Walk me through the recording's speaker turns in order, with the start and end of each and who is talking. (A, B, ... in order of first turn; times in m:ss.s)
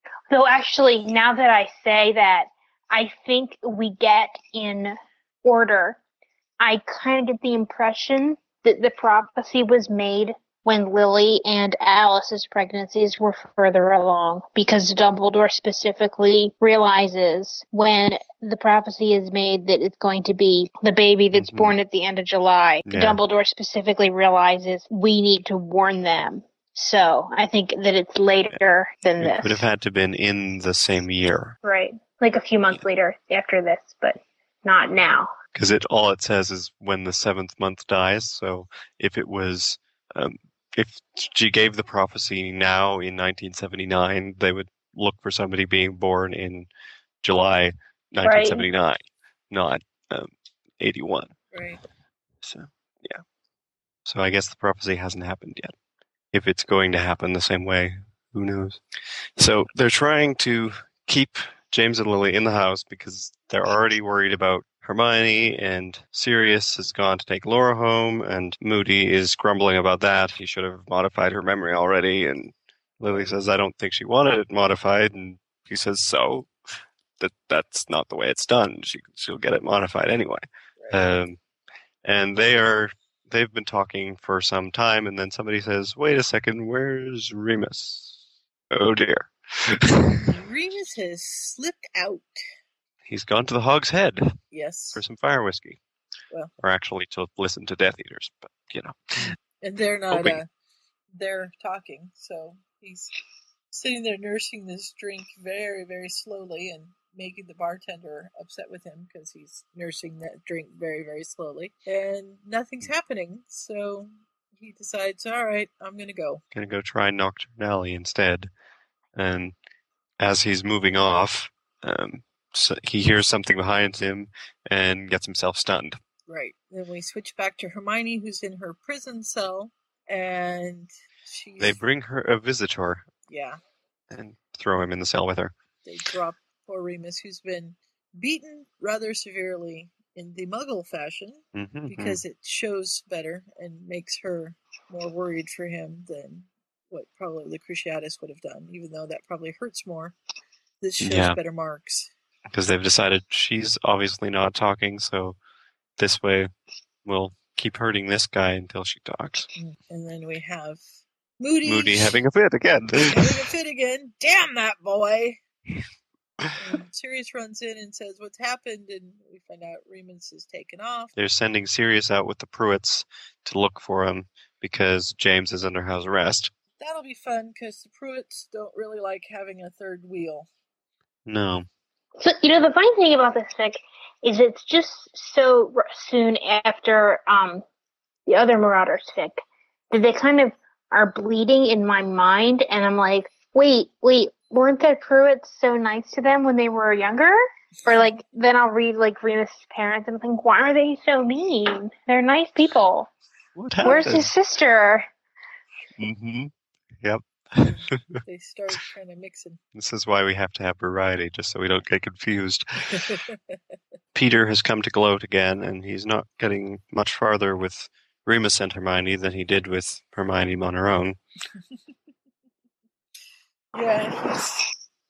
0:00.3-0:06.0 A
0:06.6-0:29.7 A
0:21.3-0:21.8 B
0:22.9-0:23.2 B
0:29.2-0:31.6 B
0:31.6-0:35.3 A
0:35.5-0:46.7 B
0:47.2-0:51.4 B
0:48.2-0:48.7 A
0:51.5-0:51.8 C
0:52.4-0:53.2 B
0:54.1-0:55.7 B
0:56.3-0:58.8 B
0:59.4-1:16.5 B
1:13.1-1:13.3 C
1:17.2-1:21.4 B
1:20.8-1:21.2 C
1:22.0-1:28.2 B
1:28.7-1:30.2 B
1:30.2-1:32.4 C
1:33.1-1:34.4 B
1:34.5-1:35.0 C
1:34.9-1:35.8 B
1:36.6-1:39.4 B
1:39.6-1:40.5 C
1:40.1-1:40.4 B
1:41.2-1:43.1 C
1:43.7-1:56.4 C
1:56.5-1:58.5 B
1:59.2-1:59.5 B
2:00.2-2:06.0 B
2:06.3-2:11.8 C
2:11.6-2:13.1 B
2:13.3-2:13.6 C
2:14.1-2:15.5 B
2:15.8-2:30.2 C
2:21.5-2:22.2 B
2:30.8-2:32.1 C
2:31.0-2:31.4 B
2:32.5-2:35.4 B
2:36.0-2:36.5 B
2:37.0-2:39.5 B
2:39.6-2:40.8 C
2:41.4-2:42.2 C
2:41.6-2:43.5 B
2:43.0-2:45.4 C
2:46.6-2:51.1 C
2:51.2-2:56.5 B
2:56.8-3:00.5 C
3:01.3-3:01.7 B
3:02.2-3:07.6 A
3:08.3-3:09.4 A
3:09.9-3:23.1 A
3:23.6-3:24.3 B
3:23.8-3:25.1 A
3:26.0-3:26.5 B
3:27.0-3:28.2 B
3:28.3-3:29.6 C
3:29.7-3:33.0 B
3:33.0-3:33.4 C
3:34.1-3:41.2 B
3:43.7-3:44.7 C